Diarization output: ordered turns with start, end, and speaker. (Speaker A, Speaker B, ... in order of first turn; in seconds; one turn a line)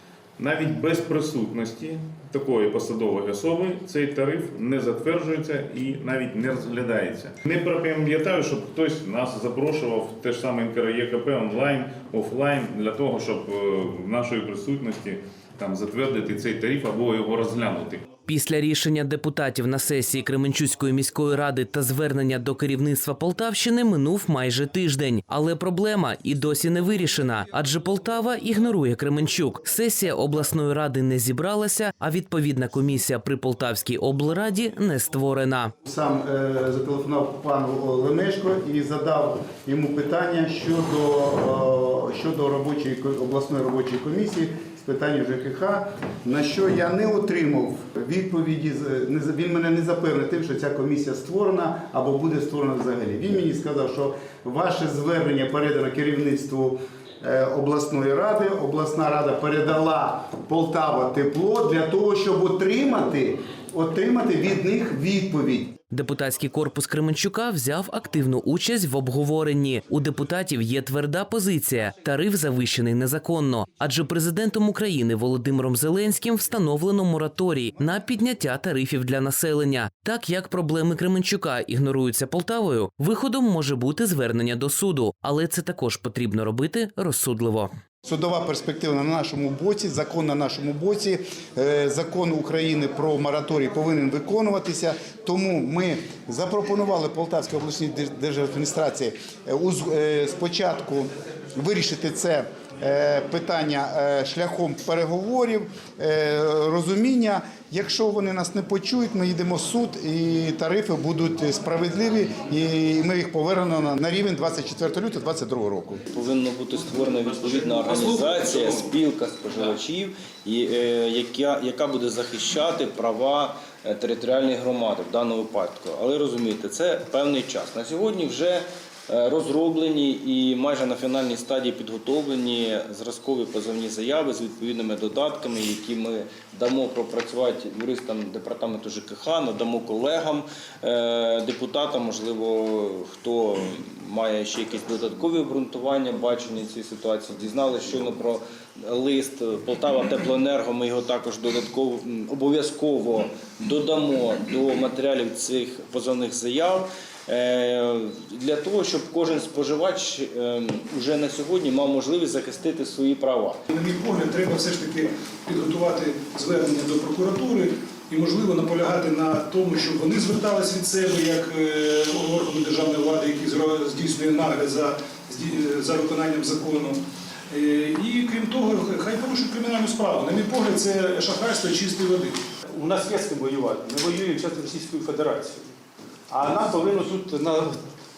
Speaker A: 0.4-18.0
Speaker B: 18.3-35.7
Speaker C: 35.8-65.7
Speaker B: 65.9-87.7
Speaker C: 88.0-116.0
Speaker D: 116.1-163.6
Speaker E: 163.7-177.0
Speaker E: 177.5-182.4
Speaker F: 182.7-185.7
Speaker F: 186.3-187.8